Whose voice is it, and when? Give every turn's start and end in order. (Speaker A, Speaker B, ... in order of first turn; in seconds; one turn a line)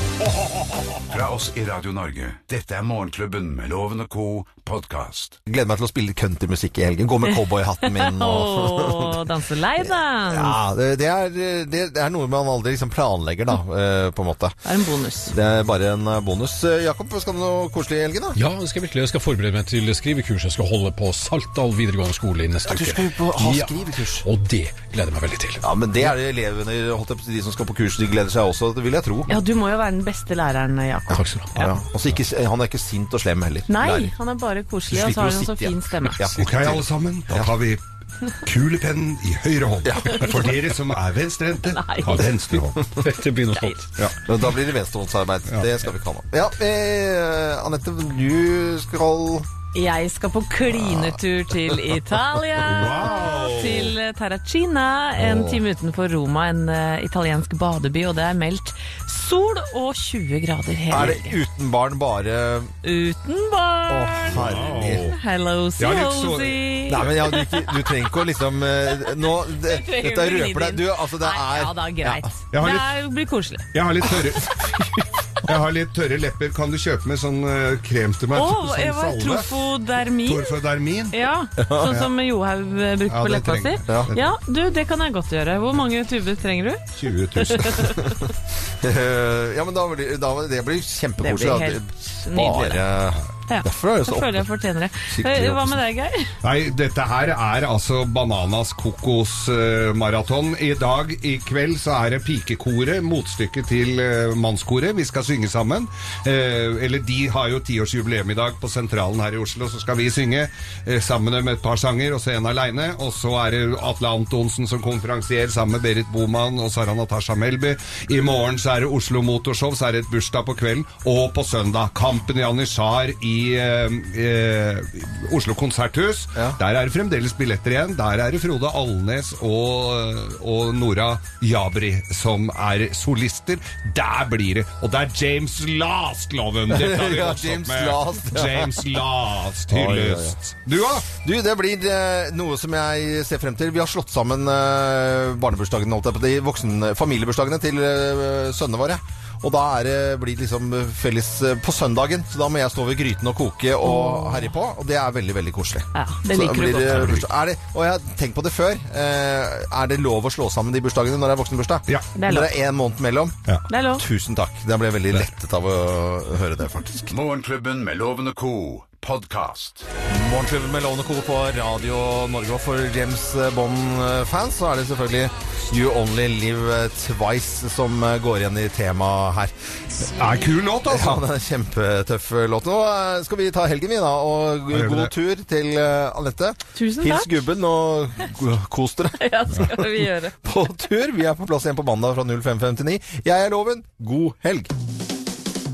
Speaker A: 0.2-1.1
Speaker B: 1.1-5.4
Speaker C: 5.5-9.2
Speaker D: 7.8-10.6
Speaker C: 9.8-14.6
Speaker D: 14.7-15.3
Speaker C: 15.3-18.4
Speaker E: 18.4-26.1
Speaker C: 22.6-24.3
Speaker C: 25.6-29.3
Speaker D: 29.3-31.8
Speaker C: 31.1-34.1
Speaker E: 31.2-31.5
Speaker D: 33.7-36.3
Speaker C: 34.9-37.5
Speaker A: 36.4-37.8
Speaker A: 38.4-42.8
Speaker C: 39.8-40.6
Speaker D: 41.7-42.3
Speaker E: 42.9-43.9
Speaker D: 43.5-43.8
Speaker C: 44.2-49.5
Speaker D: 49.7-61.4
Speaker C: 50.9-51.1
Speaker A: 52.6-54.0
Speaker C: 55.2-55.5
Speaker C: 60.9-62.7
Speaker D: 62.8-67.8
Speaker C: 63.9-65.1
Speaker A: 64.3-65.2
Speaker A: 65.8-66.8
Speaker C: 66.9-72.3
Speaker D: 69.6-73.7
Speaker A: 72.5-72.9
Speaker A: 73.7-74.7
Speaker A: 75.4-79.5
Speaker D: 78.3-80.6
Speaker A: 80.2-81.2
Speaker D: 81.1-86.8
Speaker C: 81.6-82.0
Speaker A: 81.8-82.1
Speaker A: 83.1-84.3
Speaker C: 83.9-84.1
Speaker A: 87.0-88.0
Speaker D: 87.4-88.2
Speaker C: 88.8-94.5
Speaker D: 91.2-92.8
Speaker D: 93.5-96.3
Speaker C: 95.1-95.8
Speaker A: 96.4-141.1
Speaker C: 136.7-138.8
Speaker C: 139.7-140.4
Speaker C: 141.1-163.4
Speaker D: 153.8-154.5
Speaker D: 155.9-157.2
Speaker A: 156.9-157.2
Speaker D: 162.2-162.5
Speaker D: 163.7-164.0
Speaker C: 164.0-167.1
Speaker B: 167.1-169.9
Speaker C: 170.1-179.5
Speaker A: 180.1-181.2
Speaker C: 180.9-189.2
Speaker A: 184.7-185.1
Speaker D: 186.8-187.3
Speaker D: 189.2-190.3
Speaker C: 190.4-194.7